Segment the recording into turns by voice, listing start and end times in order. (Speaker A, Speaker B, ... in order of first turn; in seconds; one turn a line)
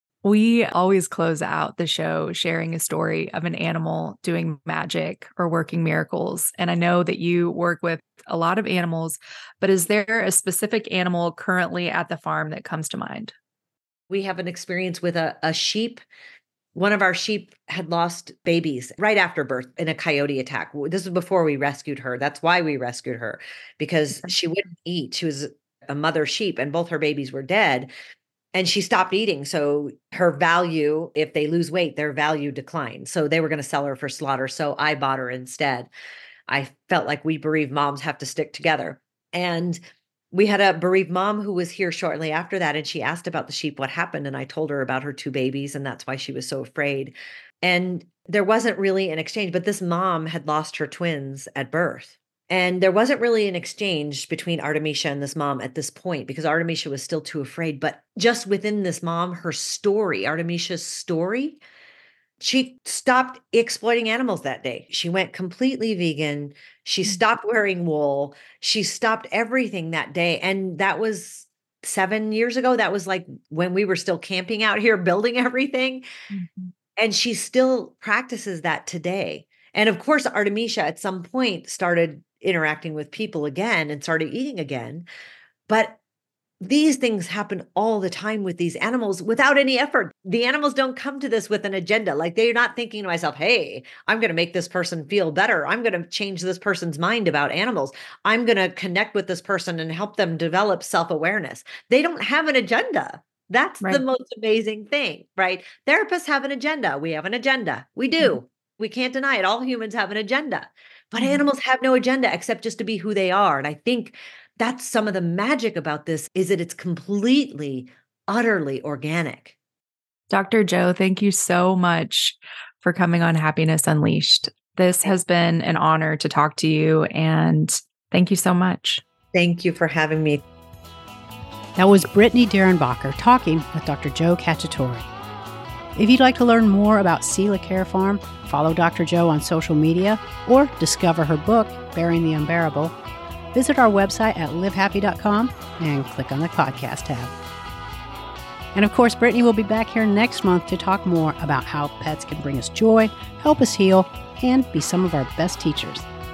Speaker A: 0.2-13.3
Speaker B: 14.1-16.0
Speaker B: 16.7-27.9
Speaker B: 28.5-35.9
Speaker B: 36.5-39.8
Speaker B: 40.3-61.6
Speaker B: 62.4-76.0
Speaker A: 76.3-76.7
Speaker B: 77.0-85.0
Speaker B: 85.7-86.0
Speaker B: 86.6-119.5
Speaker A: 120.3-129.0
Speaker B: 129.3-130.4
Speaker C: 131.8-135.1
Speaker C: 135.9-142.9
Speaker C: 143.5-147.3
Speaker C: 148.7-156.1